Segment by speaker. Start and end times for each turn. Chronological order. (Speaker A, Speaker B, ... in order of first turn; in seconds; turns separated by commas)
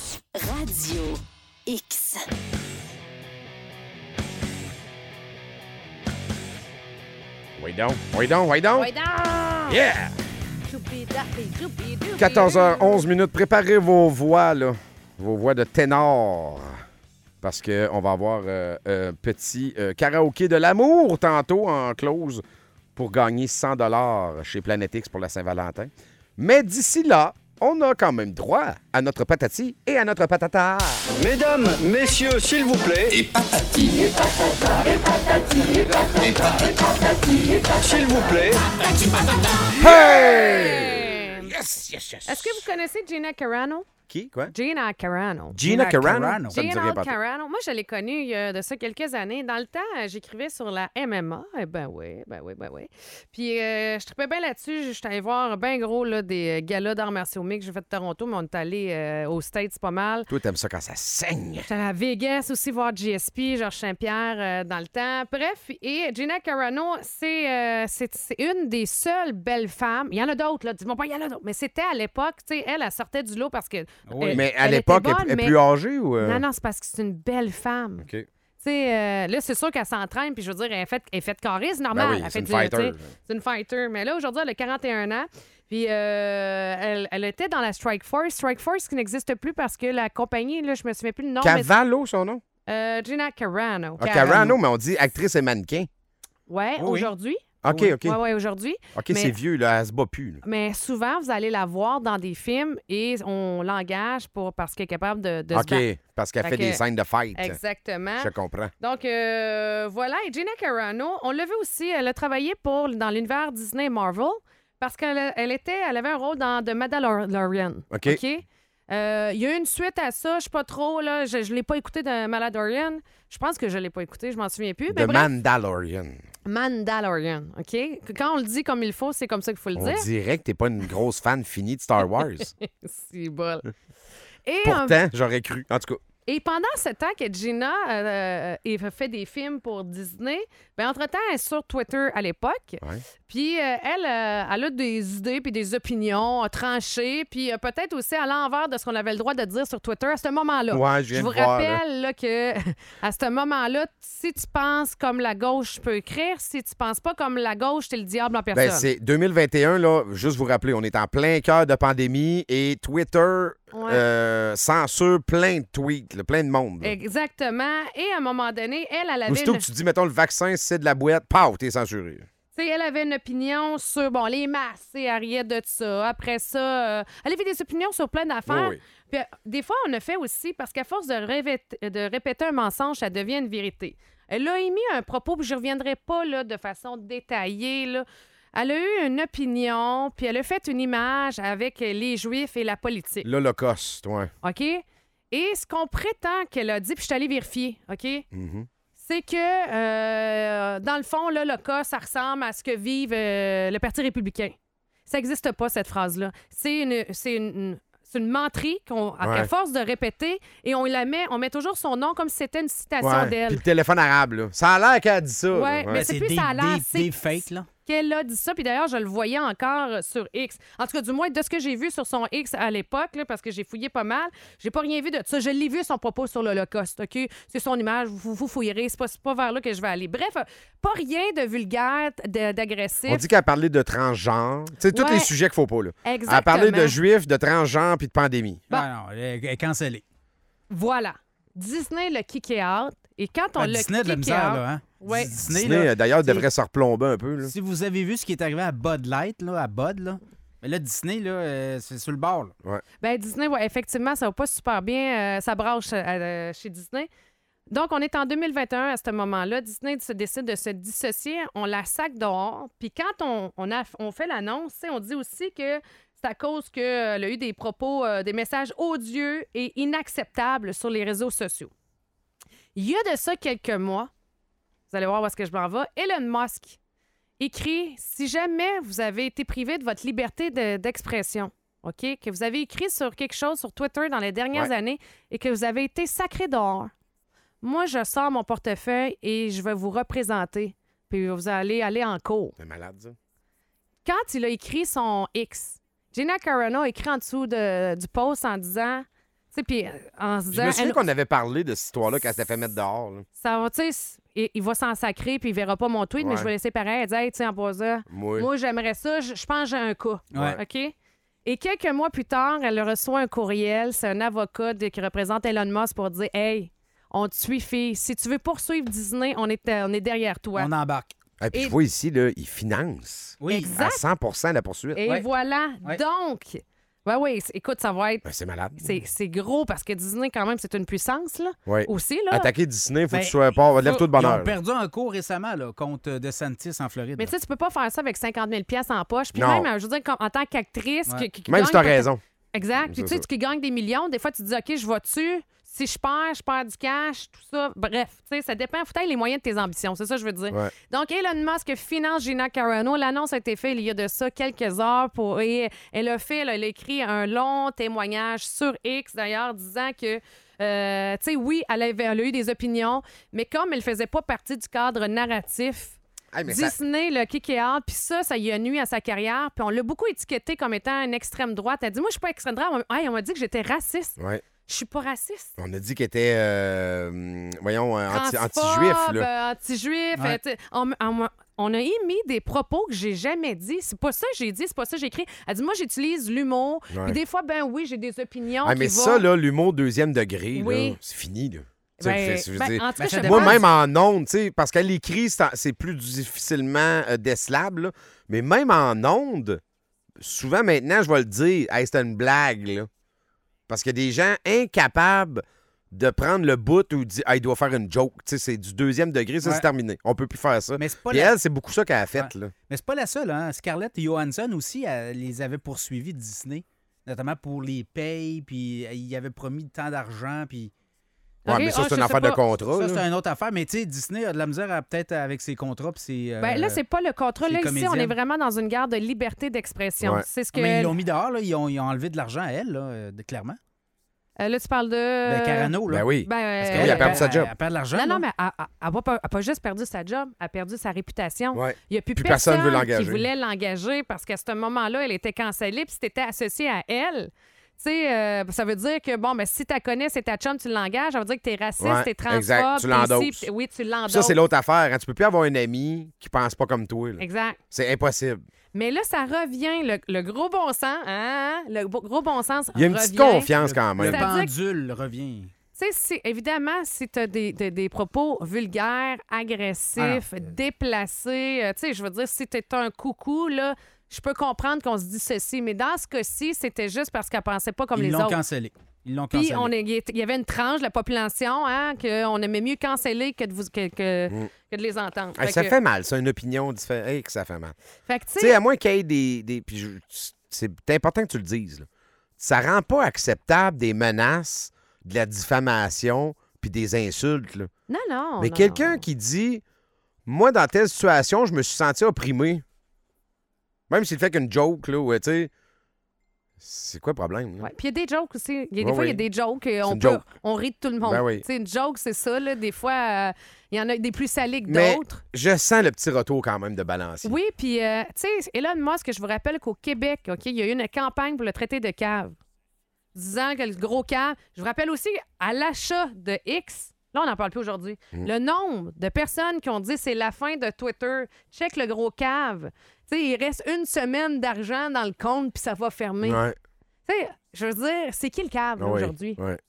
Speaker A: 0.3-2.2, Speaker B: 7.6-8.9, Speaker A: 8.7-9.8, Speaker B: 9.7-10.1, Speaker A: 10.7-13.1, Speaker B: 12.2-16.7, Speaker B: 17.4-22.4, Speaker B: 22.9-31.1, Speaker C: 31.2-33.2, Speaker C: 37.7-38.7, Speaker B: 39.7-42.7, Speaker A: 39.8-41.5, Speaker A: 42.3-43.9, Speaker B: 44.1-44.5, Speaker A: 44.5-45.6, Speaker B: 45.5-47.1, Speaker D: 45.6-46.6, Speaker A: 46.5-60.3, Speaker B: 60.3-61.7, Speaker A: 61.6-75.6, Speaker D: 74.1-74.4, Speaker B: 74.3-76.4, Speaker A: 76.2-78.1, Speaker B: 78.0-78.2, Speaker A: 78.6-91.7, Speaker B: 81.9-83.1, Speaker B: 91.4-92.4, Speaker A: 92.7-94.5, Speaker B: 94.0-95.9, Speaker D: 94.2-94.6, Speaker A: 96.5-97.5, Speaker D: 96.8-97.1, Speaker B: 97.6-98.2, Speaker D: 97.7-97.9, Speaker A: 98.0-99.3, Speaker B: 98.9-100.4, Speaker A: 100.4-105.8, Speaker B: 105.5-107.6, Speaker A: 106.4-106.8, Speaker A: 107.3-125.3, Speaker B: 108.2-108.7, Speaker B: 117.9-118.2, Speaker B: 124.9-126.2, Speaker A: 126.4-130.1, Speaker B: 129.8-132.5, Speaker A: 132.2-133.7, Speaker A: 134.4-135.0, Speaker B: 134.6-136.0, Speaker A: 136.2-158.9, Speaker B: 150.7-151.8, Speaker B: 158.5-166.9, Speaker A: 163.7-164.0, Speaker A: 166.8-169.7, Speaker B: 169.3-172.2, Speaker A: 172.5-193.3, Speaker B: 178.5-178.8, Speaker B: 193.2-194.3, Speaker A: 194.4-198.2, Speaker B: 198.3-198.7, Speaker A: 199.0-204.6, Speaker A: 205.1-213.6, Speaker B: 209.2-209.5, Speaker B: 213.0-216.0, Speaker A: 215.5-217.3, Speaker D: 215.9-217.7, Speaker A: 217.8-233.2, Speaker B: 233.1-238.6, Speaker A: 234.9-235.3, Speaker A: 236.0-237.0, Speaker D: 238.7-240.0, Speaker A: 240.7-245.3, Speaker D: 243.6-245.9, Speaker B: 245.4-247.5, Speaker A: 246.2-246.5, Speaker D: 247.4-252.5, Speaker A: 253.0-257.1, Speaker A: 257.7-271.7, Speaker A: 272.8-274.1, Speaker A: 274.9-276.8, Speaker A: 277.4-286.9, Speaker A: 287.6-292.6, Speaker B: 292.6-293.1, Speaker A: 294.0-301.0, Speaker B: 300.5-303.2, Speaker A: 303.4-320.7, Speaker B: 306.2-306.5, Speaker B: 308.1-308.5, Speaker B: 310.3-310.6, Speaker D: 310.3-310.6, Speaker D: 320.6-321.1, Speaker B: 321.4-325.0, Speaker D: 323.4-323.7, Speaker A: 323.5-324.0, Speaker A: 324.9-328.2, Speaker B: 328.2-328.9, Speaker A: 328.8-332.5, Speaker B: 331.7-334.6, Speaker D: 333.1-337.3, Speaker A: 337.2-375.5, Speaker B: 339.4-339.7, Speaker B: 341.5-342.2, Speaker B: 342.8-343.2, Speaker B: 366.3-366.8, Speaker B: 374.2-374.4, Speaker B: 375.6-379.3, Speaker A: 378.1-389.2, Speaker D: 380.1-380.4, Speaker B: 386.9-387.2, Speaker B: 388.6-399.6, Speaker A: 390.5-391.0, Speaker A: 392.0-393.6, Speaker D: 393.0-393.7, Speaker B: 400.2-402.9, Speaker B: 403.7-412.5, Speaker D: 409.4-409.7, Speaker D: 410.8-411.4, Speaker D: 412.1-420.7, Speaker A: 421.4-422.4, Speaker B: 421.5-423.0, Speaker D: 422.7-426.8, Speaker A: 426.4-430.9, Speaker D: 427.4-428.2, Speaker D: 430.5-433.6, Speaker A: 434.4-437.3, Speaker D: 435.2-436.1, Speaker B: 435.9-437.5, Speaker D: 436.6-438.2, Speaker A: 437.9-454.4, Speaker B: 441.5-443.3, Speaker B: 451.8-453.5, Speaker B: 454.1-458.4, Speaker A: 457.2-457.6, Speaker A: 458.7-464.5, Speaker B: 462.8-464.3, Speaker D: 463.6-465.5, Speaker A: 465.8-478.4, Speaker D: 470.0-470.2, Speaker D: 477.9-479.7, Speaker A: 479.3-485.8, Speaker B: 485.4-487.8, Speaker A: 488.1-488.6, Speaker B: 488.4-491.9, Speaker B: 492.4-497.7, Speaker A: 497.9-499.0, Speaker B: 498.4-499.6, Speaker B: 500.2-502.6, Speaker B: 503.9-505.5, Speaker B: 506.6-507.7, Speaker A: 507.6-515.2, Speaker B: 508.8-509.2, Speaker B: 509.8-510.2, Speaker B: 511.0-511.4, Speaker B: 514.7-517.4, Speaker A: 517.2-522.4, Speaker A: 523.1-536.4, Speaker B: 536.2-536.5, Speaker A: 537.0-539.4, Speaker B: 538.8-539.6